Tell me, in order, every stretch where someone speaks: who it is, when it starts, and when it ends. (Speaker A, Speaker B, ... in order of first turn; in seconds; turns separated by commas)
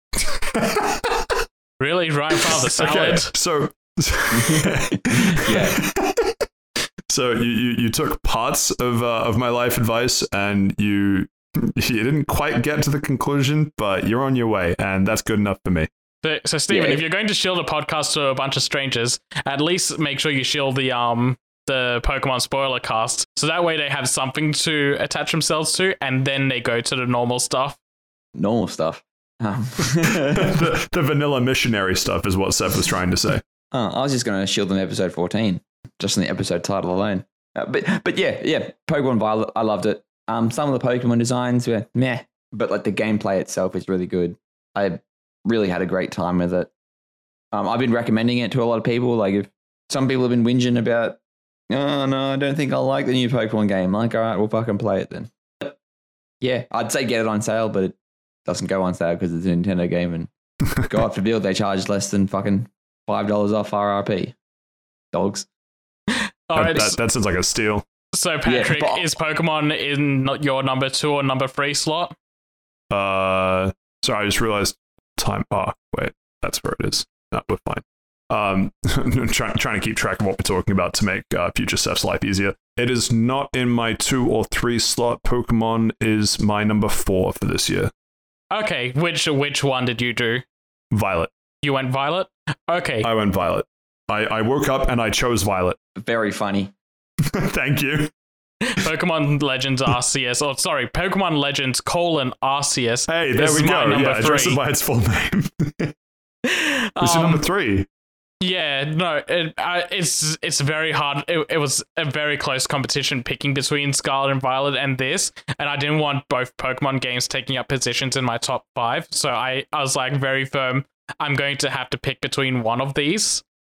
Speaker A: 0.2-1.4, Speaker B: 1.8-3.3, Speaker A: 2.5-6.4, Speaker C: 4.3-5.8, Speaker A: 7.1-15.9, Speaker B: 16.2-27.8, Speaker C: 16.7-17.0, Speaker C: 28.4-30.6, Speaker A: 30.1-33.4, Speaker C: 33.7-46.7, Speaker C: 47.5-51.2, Speaker C: 51.7-55.8, Speaker C: 56.4-64.3, Speaker C: 65.1-65.5, Speaker B: 66.2-67.0, Speaker A: 66.5-67.8, Speaker B: 68.1-72.2, Speaker C: 68.5-69.0, Speaker A: 72.9-87.9, Speaker B: 88.5-90.4, Speaker A: 90.9-91.3, Speaker B: 91.6-93.1, Speaker A: 93.0-95.8, Speaker C: 96.0-96.7, Speaker A: 97.3-98.1, Speaker B: 98.7-104.6, Speaker A: 103.1-105.9, Speaker B: 106.5-107.4, Speaker A: 107.0-107.9, Speaker B: 108.4-123.4